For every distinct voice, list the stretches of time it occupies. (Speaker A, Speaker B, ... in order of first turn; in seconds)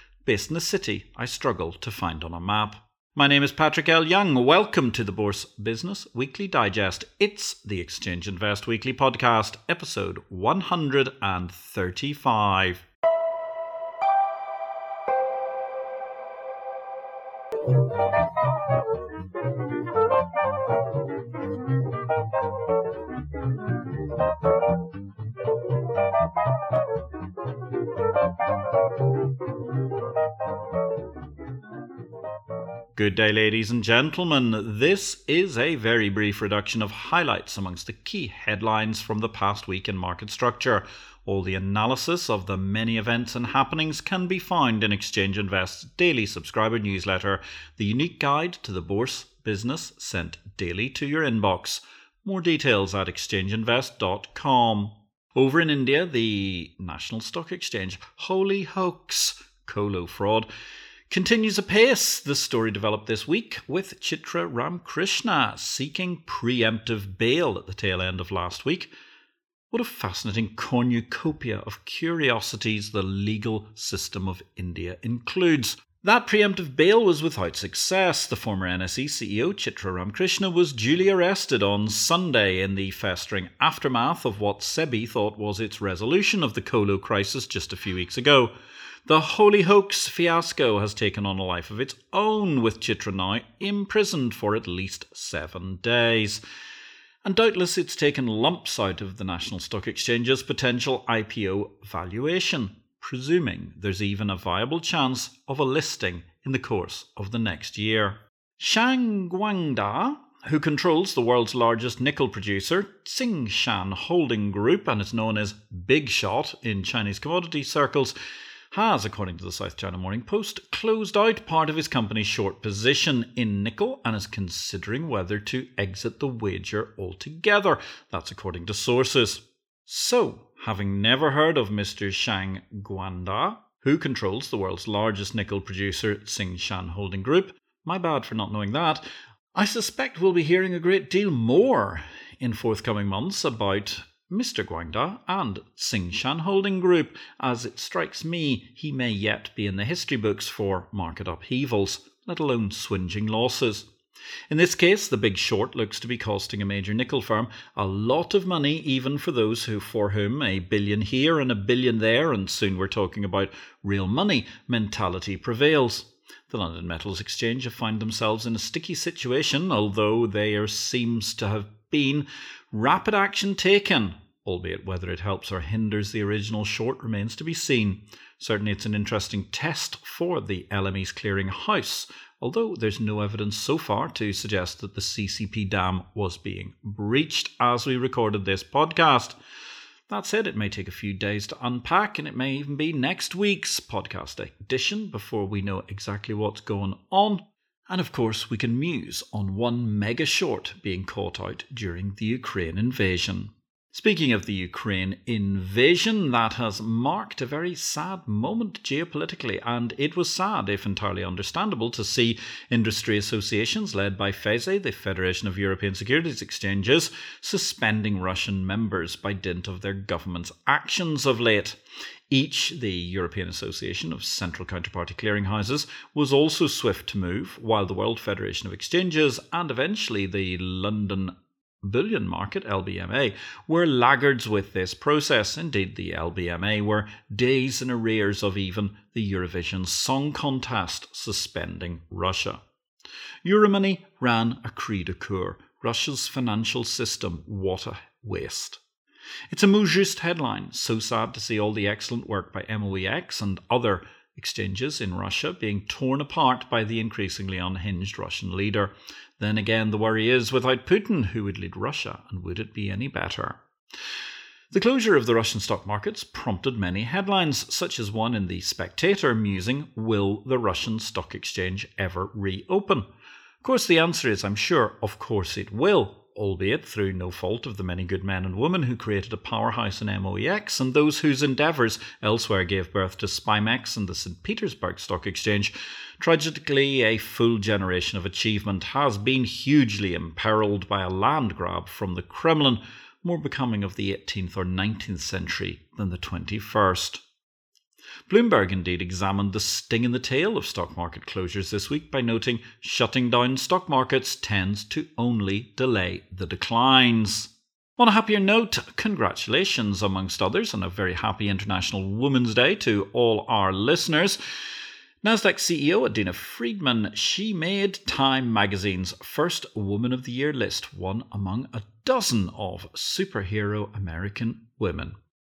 Speaker A: 0.2-12.8, 32.9-60.5, 61.1-68.9, 69.7-88.5, 89.0-96.4, 97.2-118.2, 118.7-139.0, 139.5-153.9, 154.5-189.3, 190.1-221.8, 222.3-242.6, 243.4-248.8, 249.5-263.6, 264.7-273.1, 273.6-297.2, 298.3-314.4, 315.2-325.1